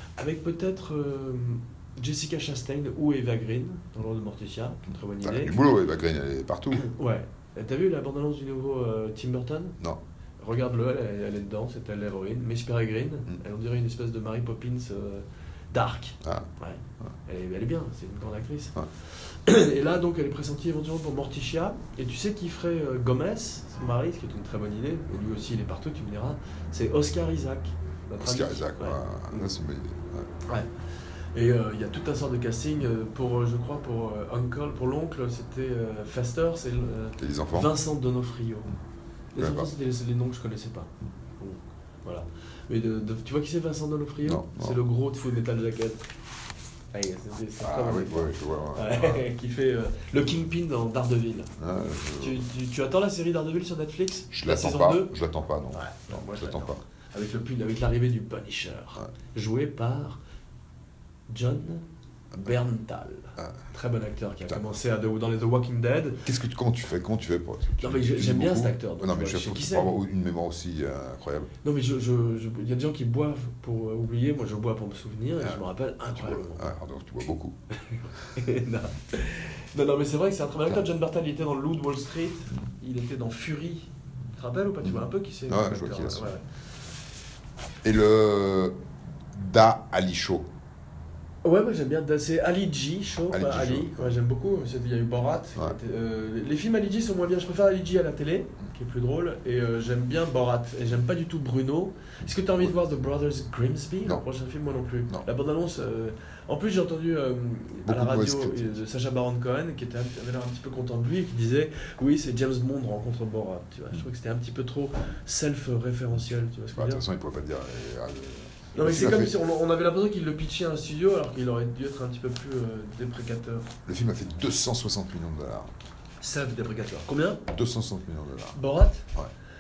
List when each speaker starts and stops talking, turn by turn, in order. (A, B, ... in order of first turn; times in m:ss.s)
0:00.2-0:05.6 A
0:05.2-0:06.9 B
0:06.7-0:09.8 A
0:10.4-0:29.5 A
0:28.2-0:30.3 B
0:31.3-0:38.7 A
0:37.2-0:37.7 B
0:39.3-0:46.0 A
0:39.4-0:39.7 B
0:44.2-0:44.8 B
0:46.9-0:51.5 A
0:47.6-0:49.2 B
0:51.6-0:52.4 B
0:52.2-0:55.1 A
0:54.3-0:56.8 B
0:55.7-1:00.2 A
1:01.3-1:06.2 A
1:06.2-1:11.5 B
1:07.8-1:09.9 A
1:11.6-1:16.7 A
1:15.4-1:17.6 B
1:17.9-1:26.4 A
1:24.8-1:26.3 B
1:27.8-1:28.8 B
1:29.3-1:30.5 B
1:31.4-1:57.0 A
1:33.3-1:34.1 B
1:42.2-1:42.7 B
1:47.8-1:48.8 B
1:56.8-1:59.3 B
1:58.7-2:03.7 A
2:03.9-2:05.7 B
2:06.2-2:07.4 A
2:07.5-2:08.6 B
2:08.6-2:09.1 A